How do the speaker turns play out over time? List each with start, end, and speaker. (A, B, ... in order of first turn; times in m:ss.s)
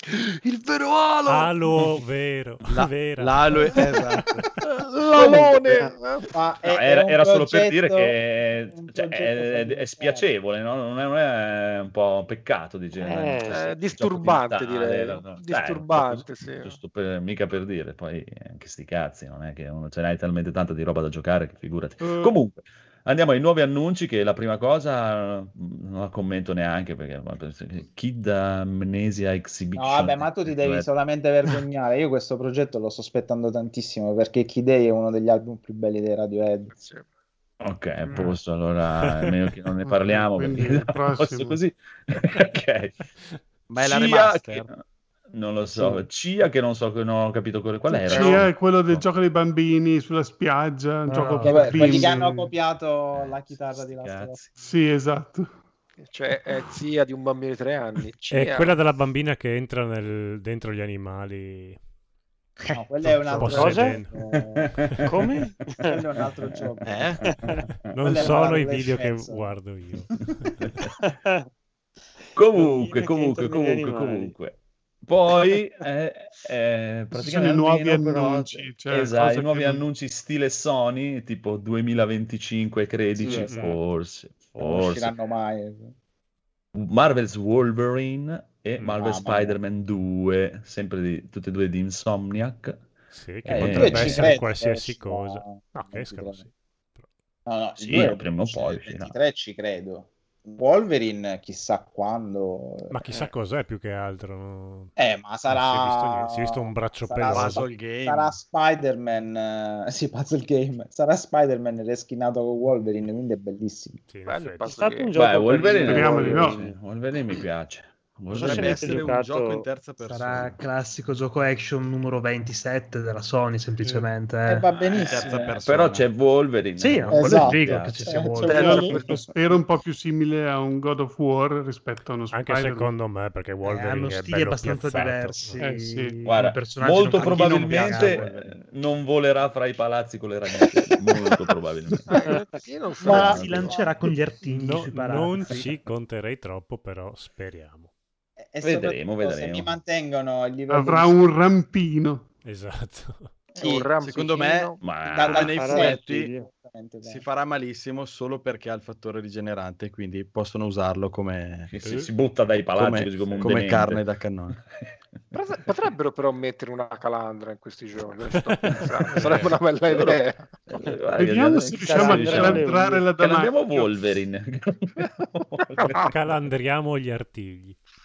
0:00.4-0:01.8 A
0:01.3-0:03.9 B
0:02.7-0:04.4 A
0:04.7-0:06.3 C
0:05.2-0:05.5 D
0:06.3-0:08.2 D
0:06.7-0:30.9 E
0:08.7-0:10.3 D
0:13.0-0:13.7 F
0:13.4-0:16.8 C
0:22.0-0:22.3 G
0:29.8-0:36.7 D
0:36.7-0:37.0 C
0:37.6-0:43.1 E
0:38.1-0:38.4 H
0:39.8-0:41.6 G
0:43.7-0:44.7 A
0:43.8-0:49.0 E
0:48.0-0:52.5 G
0:48.1-0:48.4 C
0:51.1-0:52.1 H
0:51.4-0:54.4 D
0:53.1-0:54.5 E
0:54.6-0:55.5 G
0:56.0-0:58.8 C
0:58.3-1:01.8 B
1:02.7-1:04.7 D
1:03.4-1:04.1 B
1:03.4-1:04.0 F
1:04.3-1:05.2 E
1:05.0-1:06.0 F
1:05.8-1:07.2 D
1:06.8-1:07.2 A
1:07.2-1:07.6 E
1:07.3-1:07.6 F
1:07.9-1:10.2 B
1:08.0-1:09.5 D
1:10.6-1:10.9 E
1:11.0-1:11.5 F
1:12.3-1:25.1 E
1:12.5-1:14.3 F
1:17.1-1:19.8 G
1:23.2-1:23.7 D
1:23.3-1:23.8 F
1:24.6-1:25.9 D
1:26.7-1:32.8 E
1:28.8-1:29.6 D
1:33.1-1:37.0 B
1:33.4-1:34.4 E
1:33.5-1:36.4 D
1:37.4-1:43.0 D
1:37.8-1:39.1 E
1:42.9-1:44.9 B
1:45.0-1:54.0 D
1:45.5-1:47.7 B
1:47.2-1:48.4 A
1:54.1-1:54.9 B
1:54.2-1:55.2 C
1:54.7-1:56.8 F
1:55.2-1:59.1 E
1:55.8-1:56.6 G
1:58.3-2:00.6 A
1:58.4-1:59.6 F
2:00.0-2:04.7 H
2:04.4-2:05.6 D
2:04.9-2:06.1 A
2:05.6-2:08.2 E
2:06.8-2:08.9 H
2:07.1-2:09.2 D
2:08.4-2:09.3 C
2:08.5-2:13.0 G
2:12.3-2:15.6 B
2:13.6-2:18.5 H
2:15.6-2:16.2 G
2:16.2-2:22.1 E
2:17.2-2:18.5 A
2:22.1-2:23.7 C
2:23.0-2:25.8 H
2:23.0-2:23.9 D
2:23.0-2:23.7 E
2:24.5-2:27.9 B
2:28.4-2:31.2 D
2:28.6-2:29.8 E
2:30.7-2:32.3 G
2:32.4-2:33.3 B
2:33.5-2:34.8 C
2:33.6-2:33.9 D
2:34.0-2:34.7 A
2:34.8-2:35.6 E
2:35.0-2:37.2 D
2:35.2-2:36.3 A
2:35.4-2:36.5 F
2:37.0-2:41.7 A
2:41.7-2:44.0 E
2:41.8-2:42.1 B
2:42.7-2:44.6 A
2:43.2-2:43.5 B
2:45.3-2:50.6 C
2:49.1-2:49.5 B
2:49.2-2:56.1 E
2:51.1-2:53.9 G
2:51.7-2:53.1 F
2:55.7-2:56.1 C
2:56.0-2:57.8 B